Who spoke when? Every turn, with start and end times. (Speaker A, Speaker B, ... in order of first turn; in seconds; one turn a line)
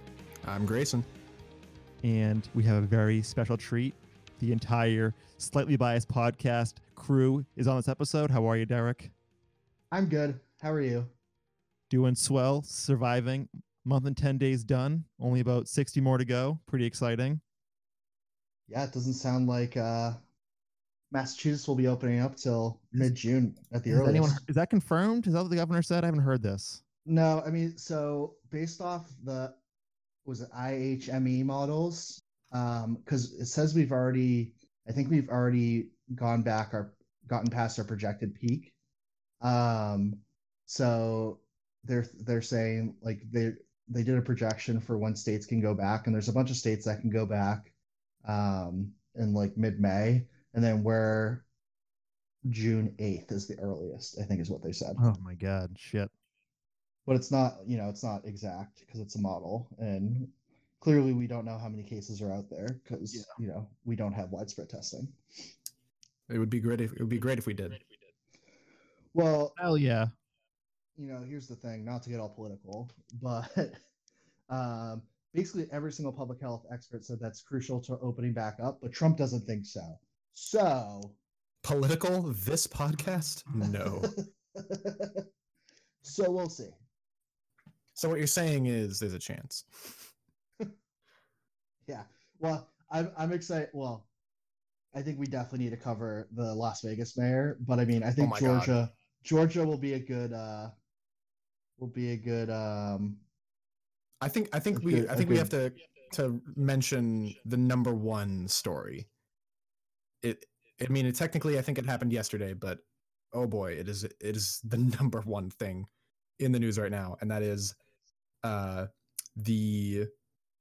Speaker A: 0.4-1.1
Speaker B: 2.0-9.1
Speaker C: 9.9-11.1
Speaker B: 11.9-17.4
Speaker C: 18.7-20.2
Speaker C: 21.1-24.4
Speaker B: 23.9-26.8
Speaker C: 27.1-29.6
Speaker C: 30.2-38.7
Speaker C: 39.4-47.7
Speaker C: 48.2-51.5
Speaker C: 52.5-55.1
Speaker B: 55.0-56.1
Speaker C: 57.0-65.2
Speaker A: 66.3-67.8
Speaker C: 69.1-69.6
Speaker B: 69.6-70.1
Speaker C: 71.0-73.8
Speaker C: 74.5-81.2
Speaker A: 81.6-84.1
Speaker C: 83.6-85.2
Speaker C: 86.0-86.8
Speaker A: 87.9-90.0
Speaker C: 91.8-94.1
Speaker C: 94.9-100.7
Speaker A: 98.2-98.7
Speaker C: 101.8-103.2
Speaker A: 104.2-109.1
Speaker C: 104.7-105.5
Speaker A: 110.2-115.9
Speaker A: 116.4-117.8
Speaker A: 118.4-120.1